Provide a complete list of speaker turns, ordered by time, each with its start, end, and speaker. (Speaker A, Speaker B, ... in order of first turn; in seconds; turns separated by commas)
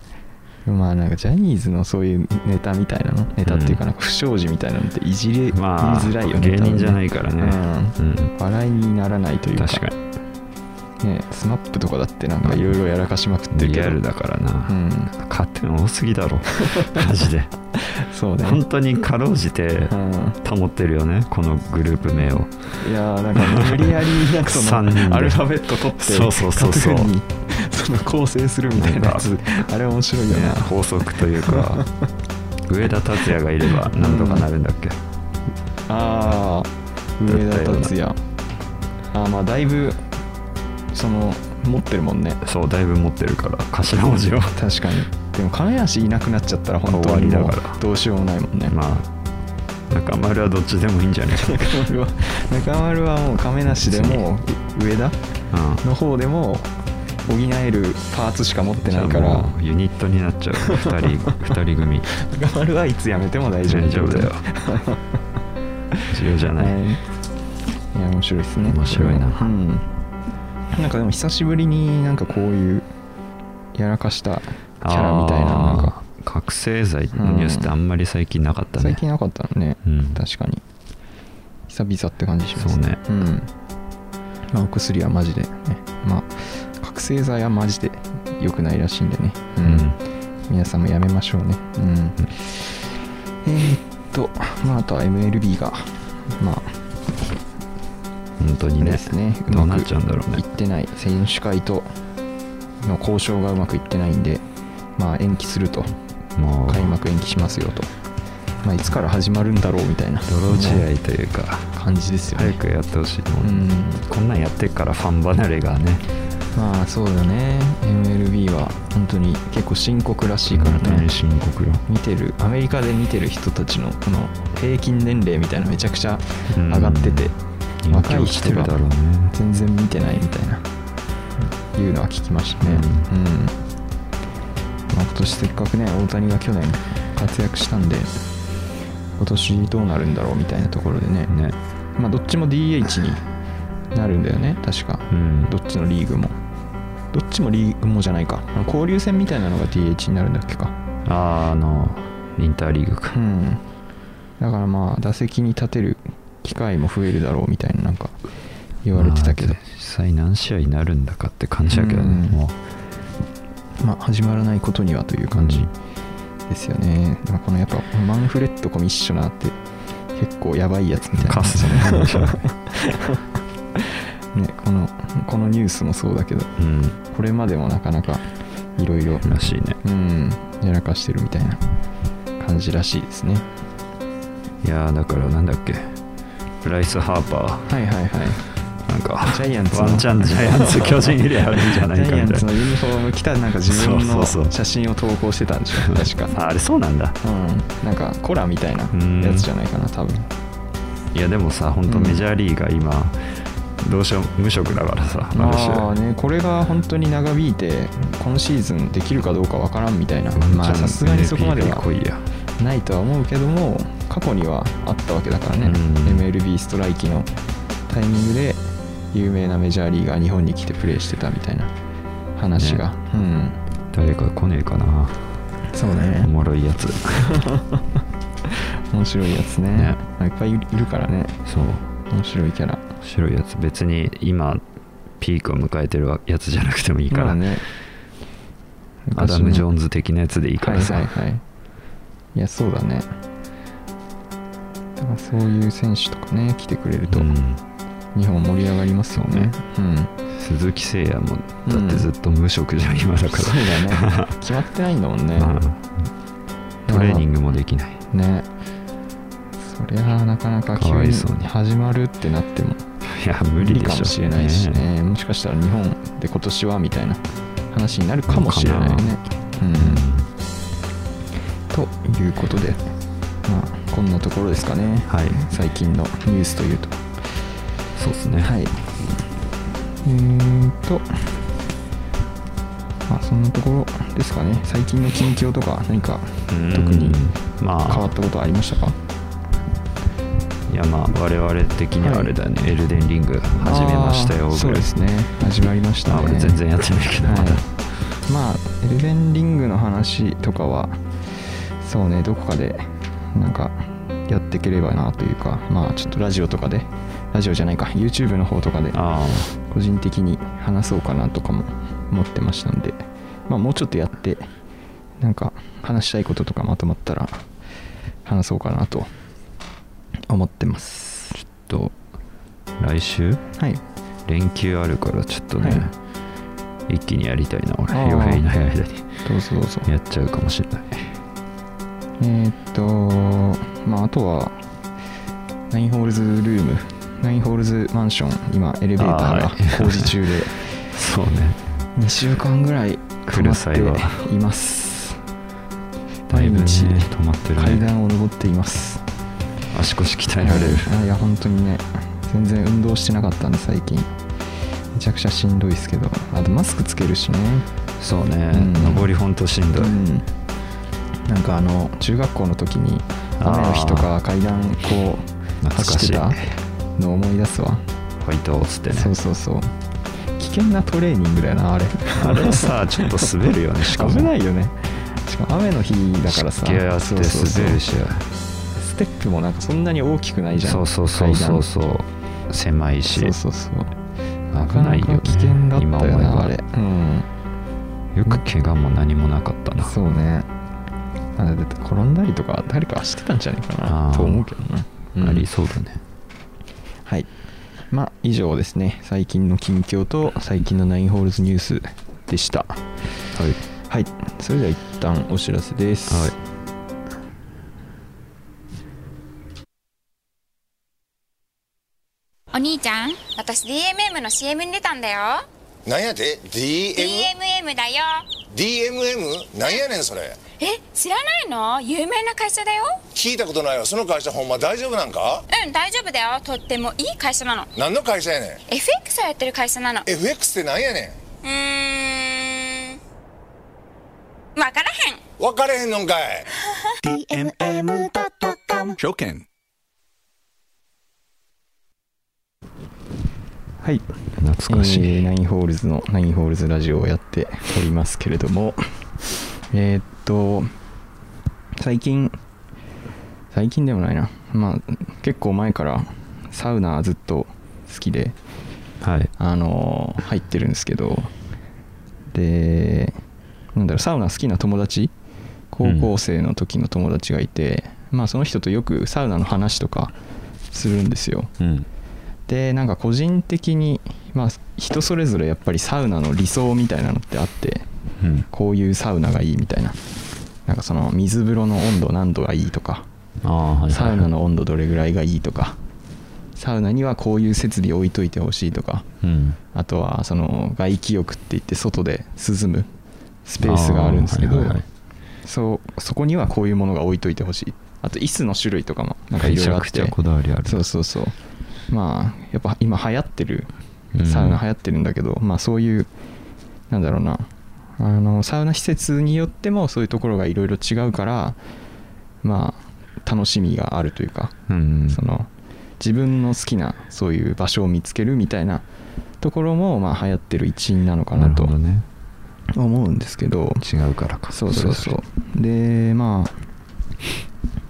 Speaker A: 0.6-9.8, Speaker B: 3.4-3.8, Speaker B: 5.5-8.3, Speaker B: 9.6-10.0, Speaker A: 11.0-14.0, Speaker B: 12.4-12.8, Speaker B: 13.5-17.5, Speaker A: 14.7-15.1, Speaker A: 17.8-18.6, Speaker B: 18.4-22.6, Speaker A: 19.9-20.4, Speaker A: 22.8-30.7, Speaker B: 23.4-25.5, Speaker B: 26.0-27.1, Speaker B: 28.8-29.7, Speaker B: 30.3-31.9, Speaker A: 31.4-32.0, Speaker B: 32.7-35.0, Speaker A: 33.7-34.5, Speaker A: 35.9-38.2, Speaker B: 37.2-37.9, Speaker A: 39.1-40.0, Speaker A: 40.9-42.4, Speaker B: 42.4-44.6, Speaker A: 44.5-48.7, Speaker B: 46.8-47.8, Speaker B: 48.7-49.1, Speaker B: 49.9-51.8, Speaker A: 51.4-55.2, Speaker B: 53.9-54.2, Speaker B: 55.5-55.8, Speaker A: 55.8-56.7, Speaker A: 57.3-59.5, Speaker B: 58.8-62.1, Speaker A: 62.2-65.0, Speaker B: 63.6-64.4, Speaker B: 66.1-66.8, Speaker A: 66.5-67.0, Speaker A: 67.9-69.9, Speaker B: 68.6-69.5, Speaker A: 70.7-72.9, Speaker A: 73.7-76.0, Speaker B: 74.8-79.0, Speaker A: 77.1-77.7, Speaker A: 78.8-80.6, Speaker B: 79.8-80.2, Speaker A: 81.7-83.5, Speaker B: 82.5-83.0, Speaker A: 84.5-89.9, Speaker B: 89.6-90.0, Speaker A: 90.5-96.8, Speaker B: 98.4-100.4, Speaker A: 98.8-101.9, Speaker A: 102.8-105.9, Speaker B: 106.3-106.9, Speaker A: 106.7-107.9, Speaker A: 108.6-110.9, Speaker B: 110.2-111.7, Speaker A: 111.7-112.6, Speaker B: 112.3-116.0, Speaker A: 113.4-114.0, Speaker A: 116.5-121.1, Speaker B: 120.5-121.8, Speaker A: 121.9-127.3, Speaker B: 126.5-127.3, Speaker B: 127.8-129.3, Speaker A: 127.9-130.6, Speaker A: 131.7-133.6, Speaker B: 132.6-133.1, Speaker A: 134.9-138.1, Speaker A: 139.2-141.3, Speaker B: 141.3-141.6, Speaker A: 141.9-143.2, Speaker A: 143.9-146.3, Speaker B: 145.1-145.5, Speaker A: 147.1-150.7, Speaker B: 151.1-153.2, Speaker A: 153.1-153.6, Speaker A: 154.4-158.2, Speaker A: 158.8-159.6, Speaker B: 158.9-162.6, Speaker A: 161.7-162.4, Speaker A: 163.8-165.7, Speaker B: 165.3-165.7, Speaker A: 166.5-169.6, Speaker A: 170.1-173.2, Speaker B: 171.2-172.4, Speaker A: 173.8-176.5, Speaker B: 176.6-177.0, Speaker A: 177.1-181.6, Speaker B: 179.2-179.8, Speaker A: 182.4-183.4, Speaker B: 184.6-186.0, Speaker B: 186.6-187.7, Speaker A: 187.7-188.5, Speaker B: 188.8-192.5, Speaker A: 189.2-196.4, Speaker B: 193.7-194.5, Speaker B: 195.9-197.2, Speaker A: 197.2-200.3, Speaker B: 198.9-199.5, Speaker B: 201.1-205.9, Speaker A: 201.9-202.2, Speaker A: 205.3-211.8, Speaker B: 210.3-212.3, Speaker A: 212.6-217.3, Speaker B: 215.6-216.2, Speaker A: 217.9-221.7, Speaker A: 222.3-223.6, Speaker B: 222.5-222.8, Speaker B: 223.9-225.4, Speaker A: 225.7-226.3, Speaker B: 226.2-227.3, Speaker A: 228.9-231.4, Speaker B: 229.7-230.0, Speaker B: 231.4-231.9, Speaker A: 232.1-232.8, Speaker B: 233.0-234.6, Speaker B: 235.2-237.5, Speaker A: 237.1-237.6, Speaker A: 239.1-239.7, Speaker B: 239.1-241.1, Speaker A: 240.6-241.4, Speaker A: 242.3-243.1, Speaker A: 245.0-247.3, Speaker B: 247.1-247.6, Speaker A: 248.1-250.1, Speaker B: 249.1-249.5, Speaker B: 250.3-254.3, Speaker A: 251.6-252.1, Speaker A: 253.3-255.6, Speaker B: 255.3-256.1, Speaker B: 256.9-258.0, Speaker A: 256.9-257.3, Speaker A: 258.1-258.4, Speaker A: 259.6-262.8, Speaker B: 260.8-261.5, Speaker B: 263.0-264.8, Speaker A: 263.6-270.0, Speaker B: 268.3-269.2, Speaker B: 269.8-270.3, Speaker A: 271.7-272.9, Speaker A: 273.4-277.1, Speaker B: 275.1-275.4, Speaker B: 277.9-278.5, Speaker A: 278.4-278.8, Speaker A: 280.0-281.2, Speaker A: 283.1-287.2, Speaker B: 286.5-288.1, Speaker A: 287.9-289.0, Speaker B: 290.7-294.9, Speaker A: 292.0-292.3, Speaker A: 293.6-296.6, Speaker B: 296.1-297.7, Speaker A: 297.2-297.6, Speaker A: 298.2-309.0, Speaker B: 308.9-309.5, Speaker A: 309.6-314.5, Speaker A: 315.2-317.5, Speaker A: 318.2-319.1, Speaker A: 320.3-321.4, Speaker B: 321.4-321.9, Speaker B: 322.8-323.4, Speaker B: 324.2-325.9, Speaker A: 325.6-325.9, Speaker B: 326.9-329.1, Speaker A: 327.9-328.4, Speaker A: 329.2-329.9, Speaker B: 329.8-331.1, Speaker A: 332.2-334.6, Speaker A: 335.7-340.6, Speaker B: 338.9-340.1, Speaker B: 340.9-341.6, Speaker A: 341.9-345.2, Speaker B: 343.2-344.3, Speaker A: 346.3-349.0, Speaker B: 346.3-347.9, Speaker B: 349.7-350.9, Speaker A: 350.4-354.1, Speaker A: 354.9-357.6, Speaker B: 358.0-360.0, Speaker A: 358.5-359.1, Speaker A: 359.8-360.3, Speaker A: 361.3-366.4, Speaker B: 363.4-364.1, Speaker B: 365.6-366.5, Speaker A: 367.0-367.8, Speaker B: 368.2-369.1, Speaker A: 368.9-369.7, Speaker A: 370.4-373.3, Speaker B: 372.2-374.3, Speaker A: 373.9-377.8, Speaker B: 376.3-378.3, Speaker A: 378.7-381.6, Speaker B: 380.6-383.3, Speaker A: 383.1-383.9, Speaker B: 384.5-386.5, Speaker A: 384.6-387.3, Speaker B: 388.1-389.9, Speaker A: 389.8-390.5, Speaker A: 391.4-395.5, Speaker B: 393.8-394.4, Speaker B: 395.2-396.0, Speaker A: 397.9-402.8, Speaker B: 403.3-403.6, Speaker A: 403.9-406.3, Speaker B: 406.1-406.3, Speaker C: 412.5-415.4, Speaker D: 415.9-417.3, Speaker C: 416.9-418.2, Speaker D: 418.5-420.4, Speaker C: 420.6-423.0, Speaker D: 423.1-425.4, Speaker C: 425.5-427.7, Speaker D: 427.8-428.6, Speaker C: 428.7-430.1, Speaker D: 430.1-431.1, Speaker C: 431.4-433.0, Speaker C: 434.6-435.2, Speaker D: 435.4-436.4, Speaker E: 437.0-439.4, Speaker A: 443.8-444.1, Speaker B: 444.4-445.2, Speaker A: 444.7-448.8, Speaker A: 449.7-450.7, Speaker A: 451.8-452.4, Speaker A: 453.5-458.4, Speaker B: 459.0-459.3, Speaker A: 459.4-461.3, Speaker A: 462.3-463.2, Speaker A: 463.7-465.1, Speaker A: 465.7-470.1, Speaker B: 465.8-466.1, Speaker A: 470.7-471.5, Speaker B: 471.6-471.9, Speaker A: 472.5-477.9, Speaker B: 478.2-478.5, Speaker A: 478.5-480.0, Speaker A: 480.6-483.1, Speaker B: 483.4-484.3, Speaker A: 483.9-485.8, Speaker A: 486.6-489.1, Speaker B: 489.2-489.6, Speaker A: 489.7-492.9, Speaker A: 493.4-494.8, Speaker B: 493.6-494.9, Speaker A: 495.4-501.4, Speaker B: 499.4-500.9, Speaker A: 501.9-503.7, Speaker B: 504.1-504.6, Speaker A: 504.2-506.1, Speaker A: 506.9-511.6, Speaker A: 512.4-515.5, Speaker B: 514.7-515.2, Speaker A: 516.0-518.8, Speaker A: 519.4-521.7, Speaker B: 521.4-522.1, Speaker A: 522.7-523.8, Speaker B: 523.8-525.2, Speaker A: 524.5-526.6